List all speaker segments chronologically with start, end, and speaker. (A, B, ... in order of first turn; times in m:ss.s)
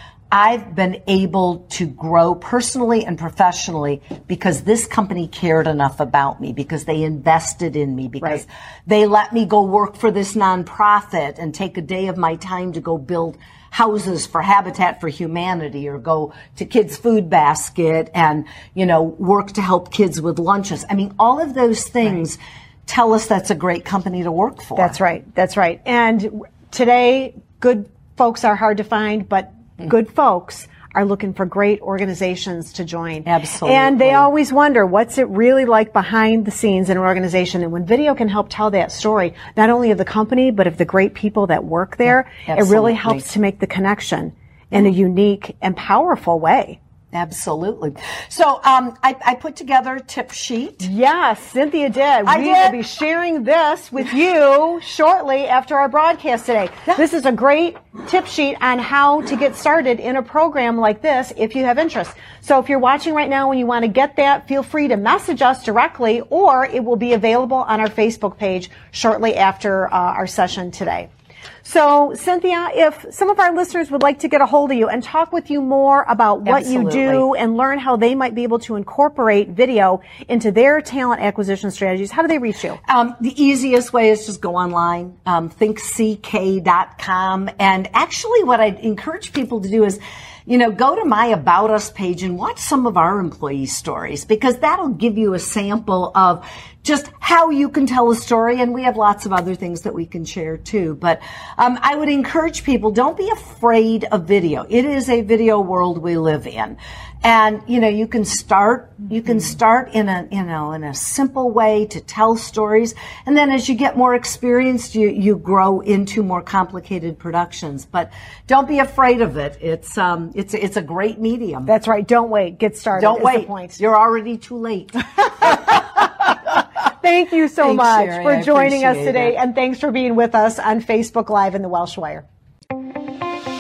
0:00.3-0:25.0 A
0:24.8-0:46.8 B
0:33.2-0:34.3 A
0:42.5-0:43.3 A
0:47.1-0:50.9 A
0:50.8-1:11.1 B
0:52.2-0:52.8 A
1:11.6-1:22.8 B
1:16.4-1:17.3 A
1:22.9-2:01.7 A
2:01.7-2:03.8 B
2:03.0-2:06.1 A
2:07.0-2:12.2 B
2:07.6-2:09.4 A